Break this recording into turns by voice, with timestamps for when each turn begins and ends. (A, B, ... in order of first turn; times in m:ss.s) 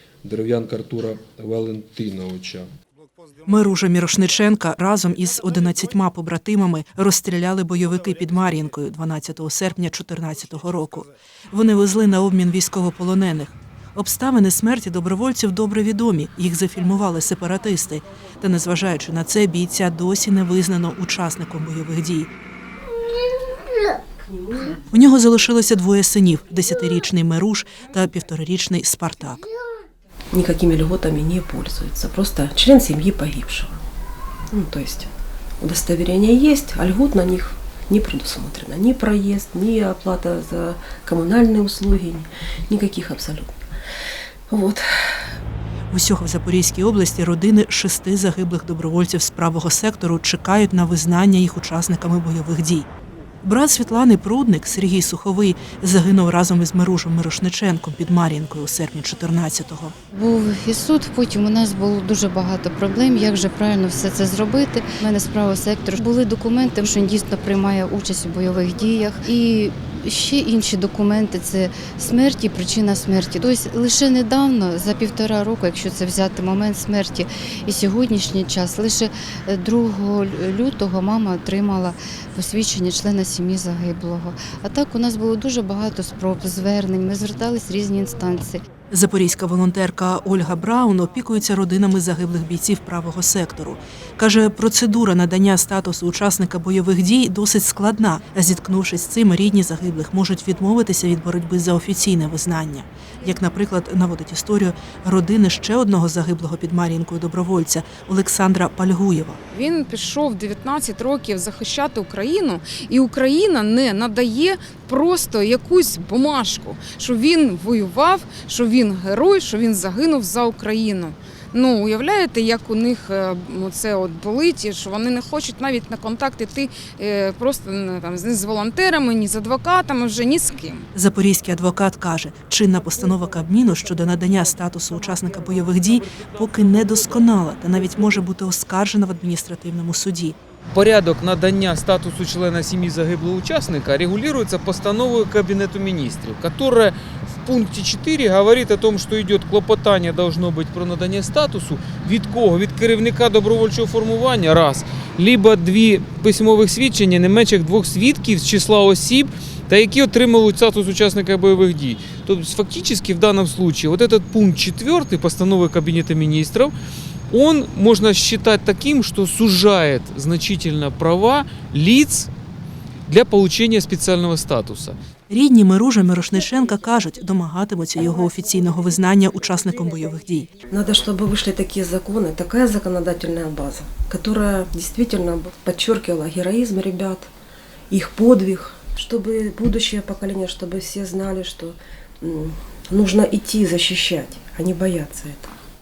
0:00.2-0:02.7 A
0:03.4-0:22.3 B
0:24.2-0:24.8 C
0:24.9-0:29.4 B
0:30.3-0:33.8 C
0:34.5-0:43.7 C
0:44.5-0:45.4 C
0:45.9-0:52.9 B
0:53.4-0:59.9 B
1:00.1-1:28.6 D
1:28.9-1:49.4 B
1:49.5-2:10.9 E
2:10.9-2:20.4 B
2:20.7-2:46.7 F
2:47.3-2:52.3 F
2:53.1-2:55.0 F
2:55.3-3:00.5 B
3:00.7-3:07.3 C
3:07.9-3:15.5 C